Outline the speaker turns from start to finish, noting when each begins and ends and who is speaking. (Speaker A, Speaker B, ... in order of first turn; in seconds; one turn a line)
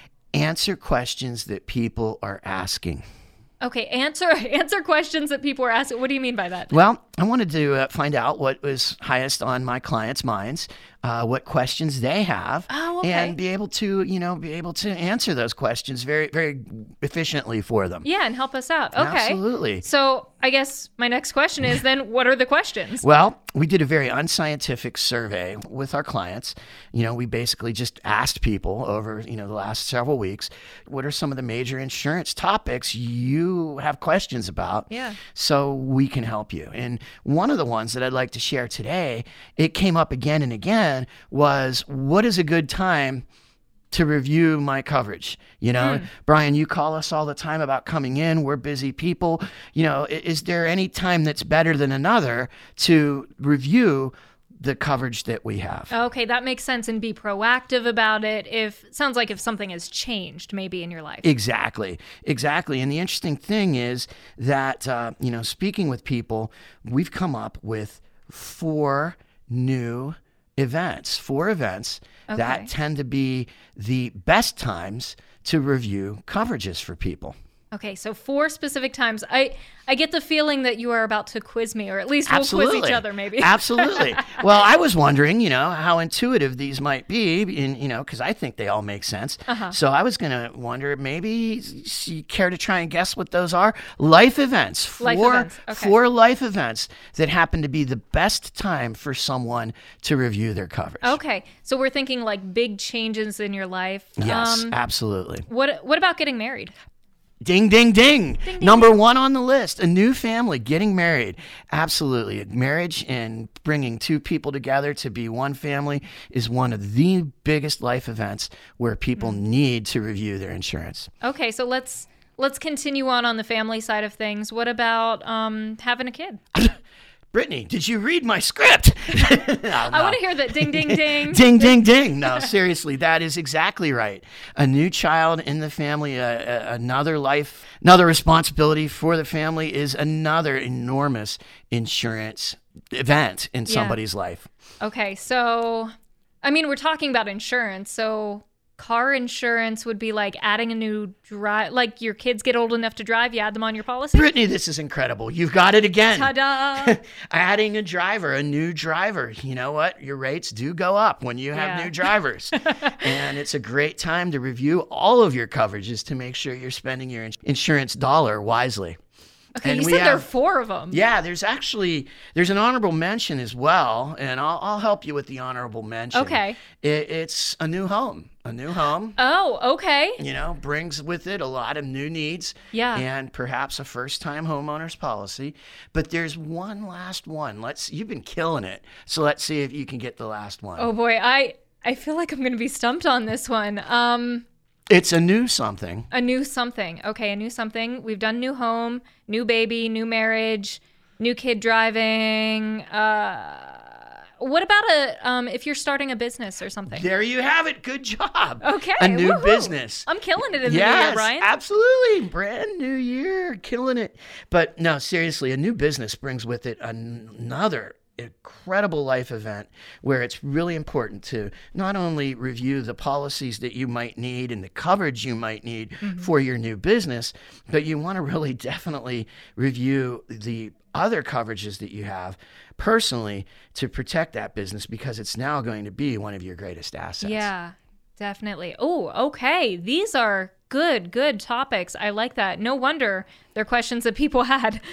Speaker A: 0.3-3.0
Speaker B: 3.6-6.7
Speaker A: 6.7-18.1
Speaker B: 12.7-13.4
Speaker B: 18.0-23.0
Speaker A: 19.0-19.8
Speaker A: 23.0-43.2
Speaker B: 34.9-35.2
Speaker A: 43.9-55.9
Speaker B: 45.8-46.1
Speaker B: 55.9-61.3
Speaker A: 61.2-77.3
Speaker B: 72.3-72.7
Speaker B: 77.7-84.4
Speaker A: 82.3-101.2
Speaker B: 89.5-89.8
Speaker B: 95.0-96.0
Speaker B: 101.0-104.8
Speaker A: 104.2-105.5
Speaker B: 105.5-106.7
Speaker A: 107.4-121.1
Speaker B: 108.4-109.0
Speaker B: 121.2-126.4
Speaker A: 127.3-144.5
Speaker B: 129.8-131.8
Speaker B: 143.7-144.0
Speaker B: 144.8-154.3
Speaker A: 154.1-169.0
Speaker B: 156.1-157.0
Speaker B: 161.5-162.1
Speaker B: 162.6-163.1
Speaker B: 169.6-171.0
Speaker A: 169.6-170.3
Speaker A: 170.9-179.2
Speaker B: 176.1-176.6
Speaker B: 179.2-180.2
Speaker A: 180.2-190.9
Speaker B: 182.7-183.0
Speaker B: 190.8-194.4
Speaker A: 194.9-196.1
Speaker B: 196.1-207.1
Speaker A: 206.9-210.1
Speaker B: 208.6-211.5
Speaker A: 210.6-237.5
Speaker B: 226.0-226.3
Speaker B: 237.2-244.8